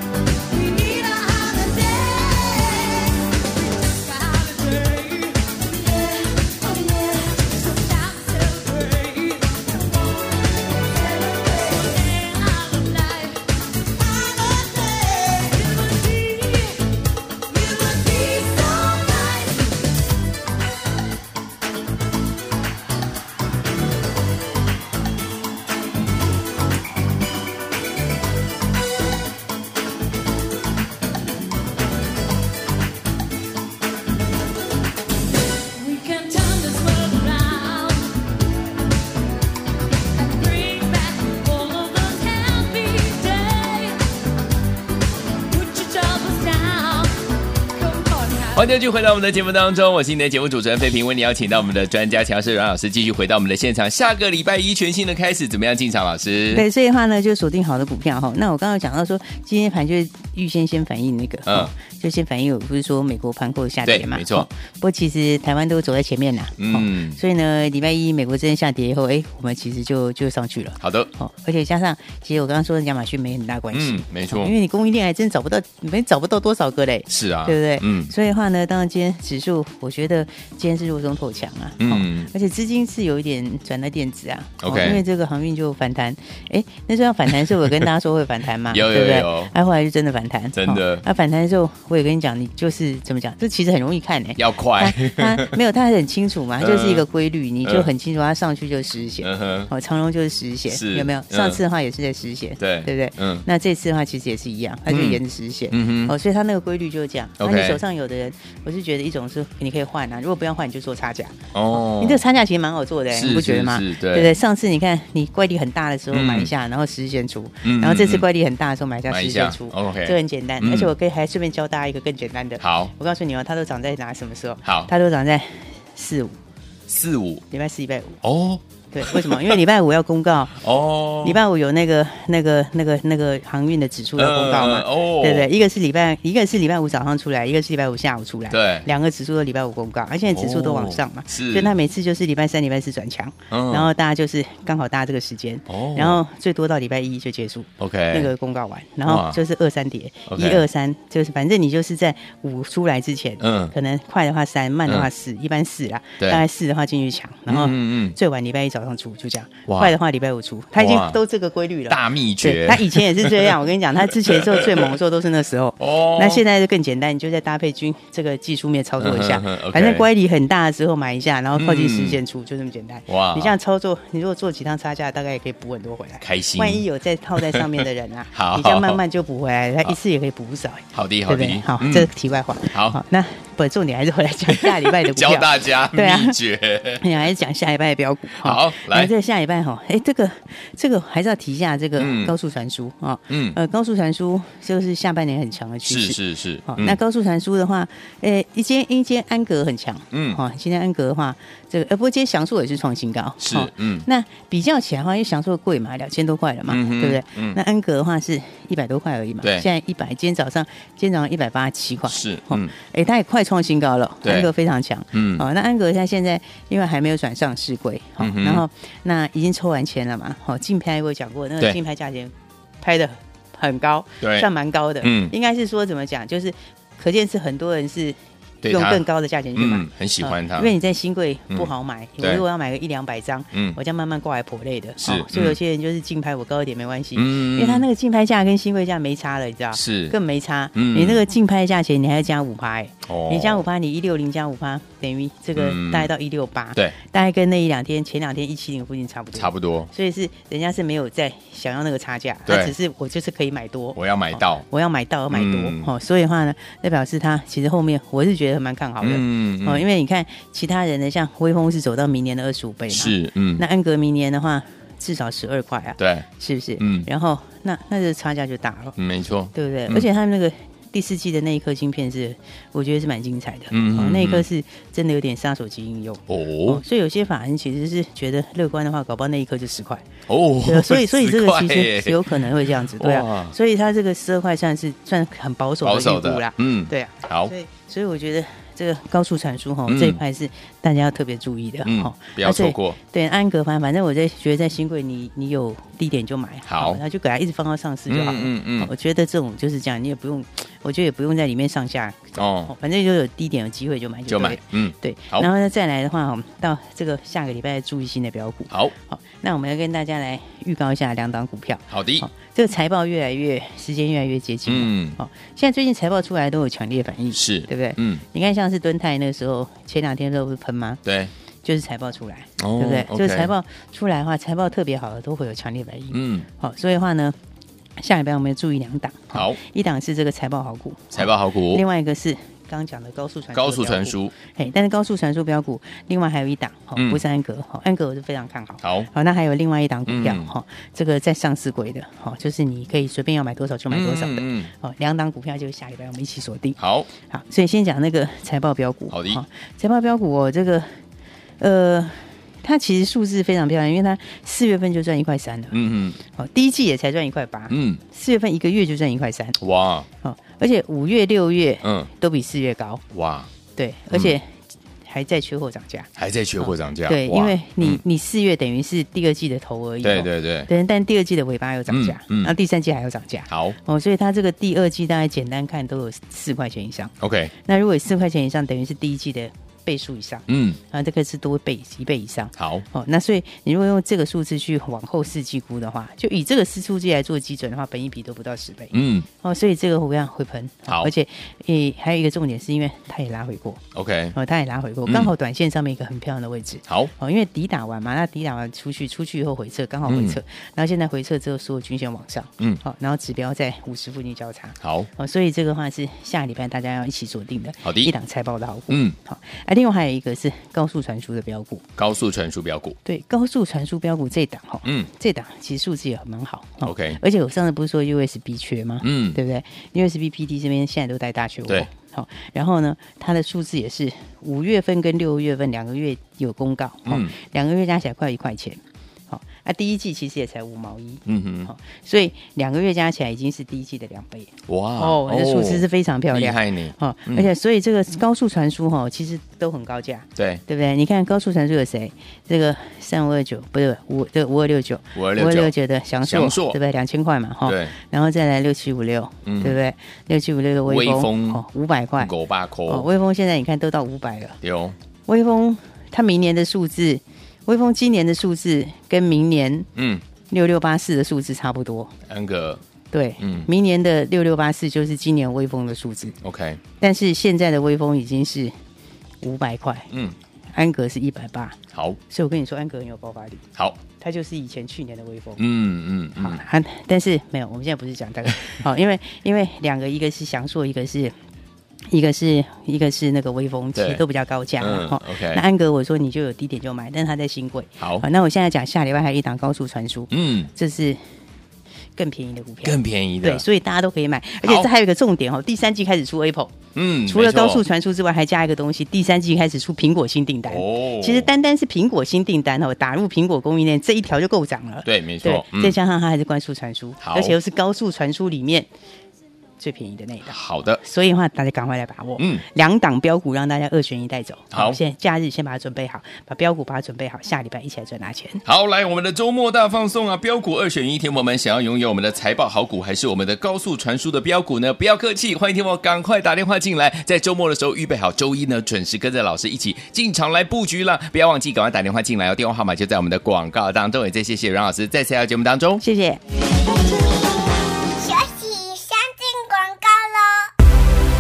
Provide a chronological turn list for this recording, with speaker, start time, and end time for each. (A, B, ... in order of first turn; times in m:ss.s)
0:00.5-0:13.5 A
0:14.0-0:16.9 A
0:17.5-0:19.8 A
0:35.7-0:38.1 A
0:40.1-0:44.0 A
0:45.5-0:47.1 A
0:47.7-0:48.7 A
0:48.6-0:56.6 B
0:56.5-2:06.4 C
1:01.5-1:01.7 B
1:03.8-1:04.5 B
1:06.6-1:07.2 B
1:10.8-1:11.1 B
1:13.7-1:14.5 B
1:17.1-1:18.1 B
1:21.8-1:22.3 B
1:24.6-1:25.0 B
1:28.7-1:29.5 B
1:30.6-1:31.0 B
1:34.4-1:35.6 B
1:36.6-1:37.0 B
1:39.2-1:39.7 B
1:40.7-1:41.6 B
1:42.6-1:43.5 B
1:44.9-1:46.1 B
1:47.4-1:47.8 B
1:51.5-1:52.2 B
1:53.1-1:54.4 B
1:56.1-1:56.5 B
1:57.6-1:58.3 B
1:59.1-2:00.9 B
2:02.6-2:02.9 B
2:04.6-2:04.9 B
2:06.9-2:07.4 B
2:07.5-2:08.2 C
2:08.2-2:09.6 B
2:08.9-2:10.6 C
2:10.6-2:11.4 B
2:11.2-3:06.4 C
2:14.2-2:15.5 B
2:18.5-2:18.9 B
2:20.3-2:21.7 B
2:23.5-2:23.9 B
2:25.7-2:26.2 B
2:27.8-2:28.3 B
2:29.0-2:29.4 B
2:30.3-2:30.6 B
2:33.4-2:33.7 B
2:37.5-2:38.2 B
2:39.7-2:40.0 B
2:40.8-2:41.2 B
2:41.9-2:43.6 B
2:44.2-2:44.9 B
2:45.8-2:46.4 B
2:49.0-2:50.1 B
2:51.6-2:52.2 B
2:53.1-2:53.6 B
2:56.2-2:57.8 B
2:58.3-2:59.0 B
3:00.9-3:02.1 B
3:02.7-3:03.0 B
3:04.5-3:07.2 B
3:07.0-4:29.0 C
3:08.4-3:09.1 B
3:12.0-3:12.3 B
3:13.3-3:13.6 B
3:15.9-3:17.0 B
3:20.1-3:20.4 B
3:23.4-3:24.1 B
3:26.7-3:27.6 B
3:29.4-3:29.7 B
3:32.1-3:32.7 B
3:34.2-3:34.5 B
3:35.1-3:35.4 B
3:38.2-3:38.6 B
3:44.2-3:44.5 B
3:45.0-3:45.3 B
3:48.6-3:49.0 B
3:49.6-3:50.7 B
3:51.5-3:52.4 B
3:53.5-3:53.8 B
3:55.0-3:55.6 B
3:57.2-3:57.8 B
3:59.7-4:00.2 B
4:00.8-4:01.2 B
4:03.1-4:03.6 B
4:05.6-4:06.1 B
4:09.4-4:09.9 B
4:12.5-4:12.8 B
4:14.0-4:14.6 B
4:15.3-4:15.9 B
4:19.0-4:19.9 B
4:22.9-4:23.6 B
4:26.0-4:26.3 B
4:26.8-4:27.1 B
4:29.0-4:30.1 B
4:29.5-4:40.1 C
4:33.7-4:34.4 B
4:36.3-4:36.8 B
4:40.3-4:43.6 B
4:40.6-5:21.0 C
4:45.8-4:47.5 B
4:49.9-4:50.2 B
4:51.8-4:53.0 B
4:56.7-4:57.0 B
4:58.1-4:58.9 B
5:02.4-5:02.7 B
5:04.3-5:05.5 B
5:11.9-5:12.3 B
5:14.7-5:15.2 B
5:17.3-5:18.2 B
5:21.0-5:21.3 B
5:21.6-5:27.4 C
5:22.6-5:23.5 B
5:26.1-5:26.5 B
5:28.0-5:50.9 C
5:29.3-5:29.6 B
5:31.1-5:31.8 B
5:33.5-5:34.3 B
5:37.0-5:37.2 B
5:38.8-5:39.1 B
5:40.1-5:40.5 B
5:43.9-5:44.7 B
5:46.8-5:47.1 B
5:49.1-5:49.4 B
5:51.6-5:59.6 C
5:55.7-5:56.2 B
5:57.7-5:58.0 B
5:59.6-6:00.1 B
6:00.2-6:03.0 C
6:01.8-6:02.1 B
6:03.1-6:03.5 B
6:03.8-6:51.9 C
6:06.2-6:08.0 B
6:10.0-6:10.7 B
6:11.9-6:12.5 B
6:13.5-6:13.8 B
6:17.2-6:17.5 B
6:20.5-6:20.8 B
6:22.6-6:22.8 B
6:28.9-6:29.3 B
6:33.9-6:34.4 B
6:40.1-6:40.4 B
6:44.8-6:45.1 B
6:47.8-6:48.1 B
6:48.9-6:49.2 B
6:52.0-6:53.0 B
6:53.0-7:32.3 C
6:54.8-6:55.1 B
6:56.8-6:57.2 B
6:59.0-6:59.4 B
7:07.1-7:07.3 B
7:11.3-7:11.7 B
7:14.7-7:17.5 B
7:20.4-7:20.6 B
7:25.2-7:26.8 B
7:27.6-7:27.9 B
7:29.4-7:29.8 B
7:30.8-7:31.6 B
7:32.2-7:33.1 B
7:32.9-7:34.6 C
7:34.6-7:35.0 B
7:35.3-7:39.9 C
7:40.0-7:40.2 B
7:40.5-7:42.1 C
7:42.3-7:42.8 B
7:43.1-7:46.4 C
7:43.4-7:43.7 B
7:46.4-7:46.8 B
7:47.0-7:48.7 C
7:49.4-7:50.1 C
7:50.1-7:50.4 B
7:50.7-7:53.7 C
7:51.9-7:52.2 B
7:53.8-7:54.0 B
7:54.2-7:55.6 C
7:55.6-7:56.6 B
7:56.4-8:01.3 C
8:02.1-8:11.2 C
8:04.0-8:04.2 B
8:04.8-8:05.6 B
8:08.0-8:08.3 B
8:10.3-8:10.7 B
8:12.2-8:16.7 C
8:12.8-8:13.6 B
8:14.6-8:14.9 B
8:17.0-8:17.8 B
8:17.3-8:28.9 C
8:20.7-8:21.5 B
8:25.0-8:26.0 B
8:27.2-8:27.6 B
8:29.8-8:38.6 C
8:30.4-8:31.0 B
8:32.4-8:32.6 B
8:34.7-8:35.0 B
8:38.6-8:56.0 B
8:56.0-8:56.4 C
8:56.6-9:00.7 D